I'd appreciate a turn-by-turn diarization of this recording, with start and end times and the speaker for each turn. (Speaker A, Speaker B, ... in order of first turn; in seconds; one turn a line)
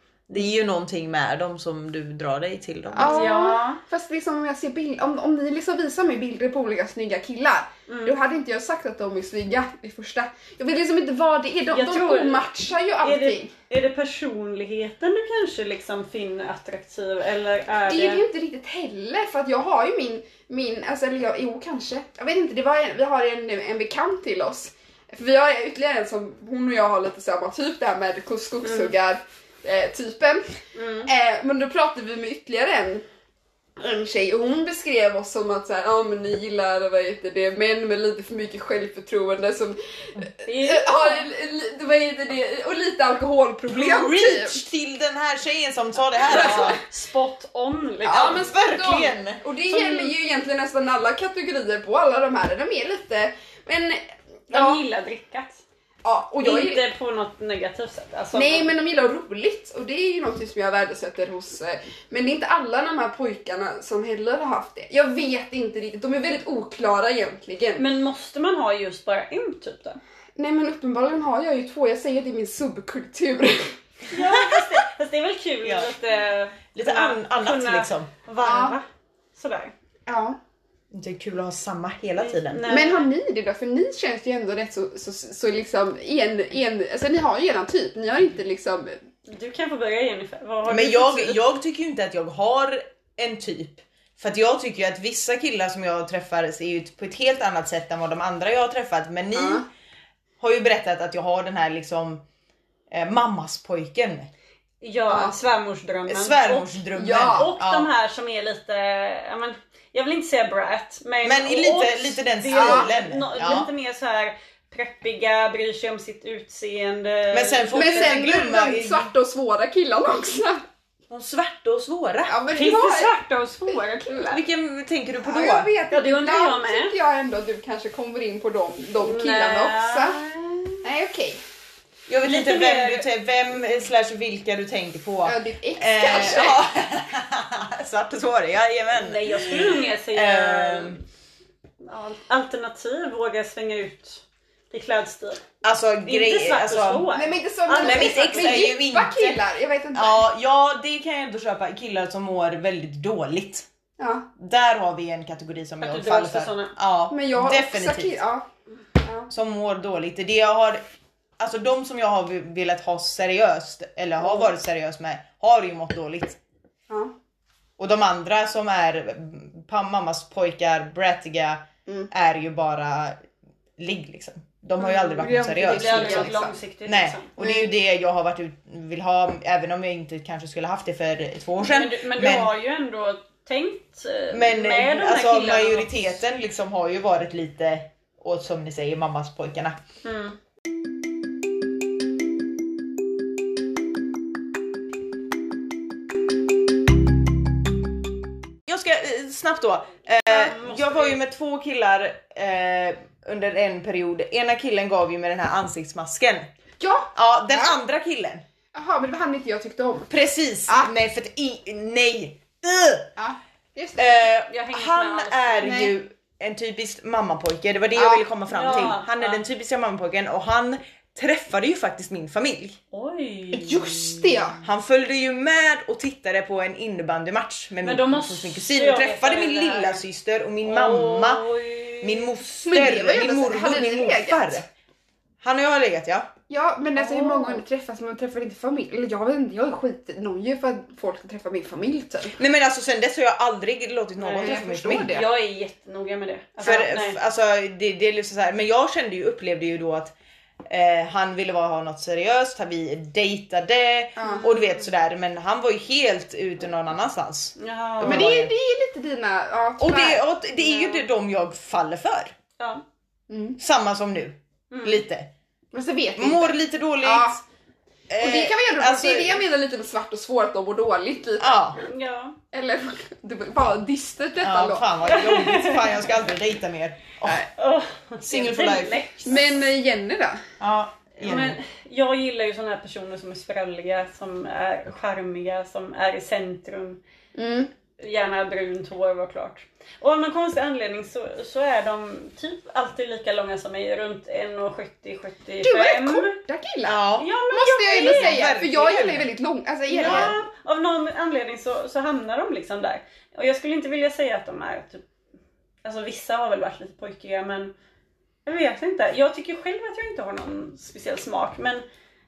Speaker A: 0.3-3.2
Speaker B: 2.9-13.5
Speaker C: 3.0-3.8
Speaker C: 7.9-8.1
Speaker C: 11.7-12.4
Speaker C: 13.0-18.2
Speaker B: 17.9-33.0
Speaker C: 28.6-28.9
Speaker C: 30.7-31.1
Speaker B: 33.8-44.6
Speaker C: 40.4-41.2
Speaker A: 43.7-46.8
Speaker B: 46.3-46.8
Speaker C: 46.3-48.5
Speaker B: 48.0-54.8
Speaker A: 48.0-49.4
Speaker C: 49.7-50.1
Speaker C: 54.5-55.6
Speaker B: 56.0-56.8
Speaker C: 56.4-58.7
Speaker B: 58.3-67.8
Speaker C: 67.8-70.0
Speaker B: 70.4-73.8
Speaker C: 74.1-79.7
Speaker A: 75.6-75.9
Speaker A: 76.7-78.1
Speaker B: 78.4-78.8
Speaker B: 80.1-80.4
Speaker A: 80.9-82.7
Speaker C: 82.2-83.1
Speaker B: 82.7-89.0
Speaker C: 89.3-91.4
Speaker A: 90.7-99.6
Speaker B: 99.3-99.6
Speaker A: 100.4-102.2
Speaker A: 102.9-104.3
Speaker C: 104.8-106.7
Speaker B: 105.1-105.3
Speaker A: 106.1-107.9
Speaker B: 107.0-107.5
Speaker C: 107.3-118.2
Speaker A: 111.2-113.7
Speaker B: 112.5-112.9
Speaker A: 117.3-119.1
Speaker B: 117.7-120.6
Speaker A: 121.1-122.3
Speaker B: 122.3-123.1
Speaker C: 122.5-124.4
Speaker B: 123.7-124.4
Speaker A: 124.2-125.7
Speaker B: 125.2-130.2
Speaker C: 125.9-126.9
Speaker C: 129.0-130.8
Speaker B: 130.8-131.4
Speaker A: 132.1-141.0
Speaker C: 132.2-133.1
Speaker B: 135.2-136.6
Speaker C: 138.9-141.0
Speaker C: 141.8-145.4
Speaker A: 145.6-147.1
Speaker C: 146.0-148.7
Speaker B: 147.1-150.3
Speaker A: 147.8-149.4
Speaker A: 149.9-153.7
Speaker B: 154.0-154.3
Speaker A: 154.4-158.2
Speaker C: 155.8-156.7
Speaker B: 157.1-158.4
Speaker B: 159.0-159.3
Speaker A: 159.3-160.8
Speaker A: 161.4-166.4
Speaker B: 164.2-164.5
Speaker A: 167.8-173.2
Speaker A: 173.8-182.5
Speaker C: 174.8-177.3
Speaker B: 175.0-176.5
Speaker B: 177.4-177.7
Speaker C: 181.6-186.1
Speaker A: 184.3-189.8
Speaker C: 190.0-190.4
Speaker A: 198.7-206.5
Speaker C: 200.2-201.2
Speaker B: 206.8-207.7
Speaker A: 207.1-208.4
Speaker B: 208.7-210.1
Speaker A: 210.1-213.1
Speaker B: 213.2-214.1
Speaker A: 214.0-222.8
Speaker C: 214.5-215.9
Speaker B: 215.6-215.9
Speaker B: 217.9-218.2
Speaker C: 218.5-219.4
Speaker C: 222.9-223.9
Speaker B: 223.5-224.6
Speaker A: 224.6-231.4
Speaker C: 227.8-230.0
Speaker C: 230.6-232.3
Speaker A: 232.0-234.7
Speaker B: 232.6-234.6
Speaker A: 235.4-236.3
Speaker B: 236.5-242.4
Speaker C: 236.9-237.6
Speaker A: 242.3-245.1
Speaker C: 244.2-247.2
Speaker B: 244.4-245.3
Speaker A: 246.6-250.1
Speaker A: 250.7-258.5
Speaker B: 254.2-254.5
Speaker C: 254.2-254.8
Speaker C: 257.6-258.3
Speaker B: 258.0-260.2
Speaker A: 259.8-262.4
Speaker C: 260.6-261.0
Speaker C: 262.6-262.8
Speaker B: 263.3-263.6
Speaker A: 263.6-265.3
Speaker C: 264.7-265.0
Speaker B: 265.7-267.4
Speaker A: 266.1-267.4
Speaker A: 268.1-269.4
Speaker B: 268.2-271.6
Speaker A: 271.4-271.8
Speaker C: 271.8-272.4
Speaker B: 272.5-274.9
Speaker A: 274.4-277.5
Speaker C: 275.1-276.0
Speaker C: 277.3-279.4
Speaker A: 278.2-279.4
Speaker B: 279.2-280.4
Speaker A: 280.6-281.6
Speaker C: 281.2-287.0
Speaker B: 287.3-287.7
Speaker C: 288.0-296.4
Speaker B: 295.6-297.0
Speaker A: 296.8-297.3
Speaker C: 297.2-298.4
Speaker B: 297.5-300.3
Speaker A: 297.9-299.3
Speaker C: 299.9-305.0
Speaker A: 300.0-300.3
Speaker C: 305.8-307.7
Speaker C: 308.4-311.8